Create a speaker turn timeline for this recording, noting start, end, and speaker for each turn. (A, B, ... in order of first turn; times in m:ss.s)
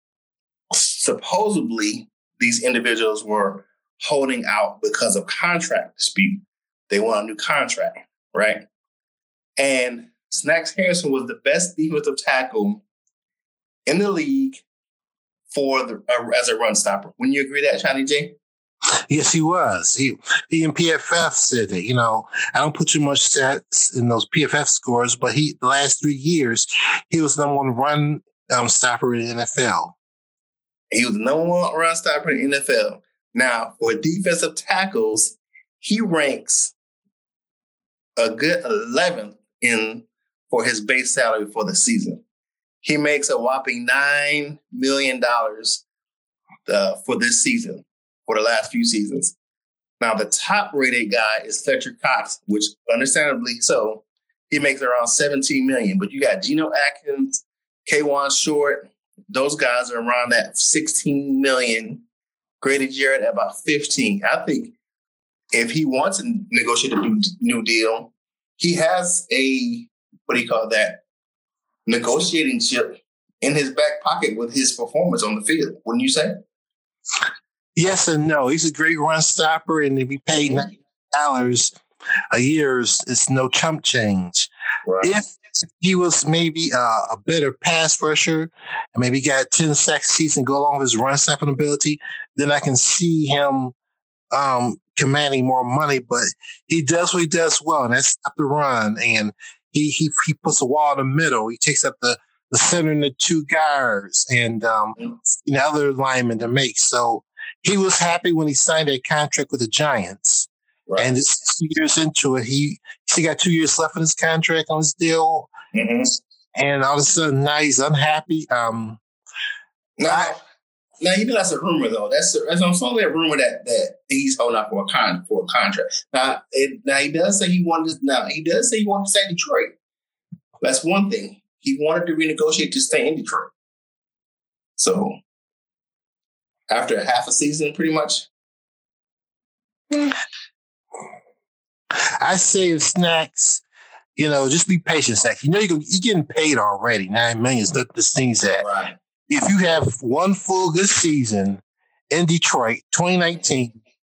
0:00.7-0:08.6 A
0:09.6-0:12.8 A
0:13.9-0:14.6 A
0:15.5-0:18.4 A
0:19.1-0:30.0 B
0:30.9-0:36.7 A
0:38.2-0:42.2 A
0:42.8-0:45.8 A
0:46.7-0:49.4 A
0:50.0-1:02.0 A
1:02.6-1:04.8 A
1:05.5-1:11.0 A
1:11.9-1:16.4 A
1:17.8-1:21.8 B
1:22.3-1:24.5 B
1:24.9-1:25.2 A
1:25.0-1:33.7 B
1:34.3-1:55.5 B
1:50.9-1:51.1 A
1:55.7-1:56.1 A
1:56.6-1:59.0 B
2:00.0-2:00.4 A
2:01.0-2:09.7 A
2:10.6-2:13.5 A
2:14.8-2:15.2 A
2:16.7-2:18.3 A
2:22.2-2:23.6 B
2:24.2-2:28.7 B
2:28.6-2:28.9 A
2:29.3-2:33.8 B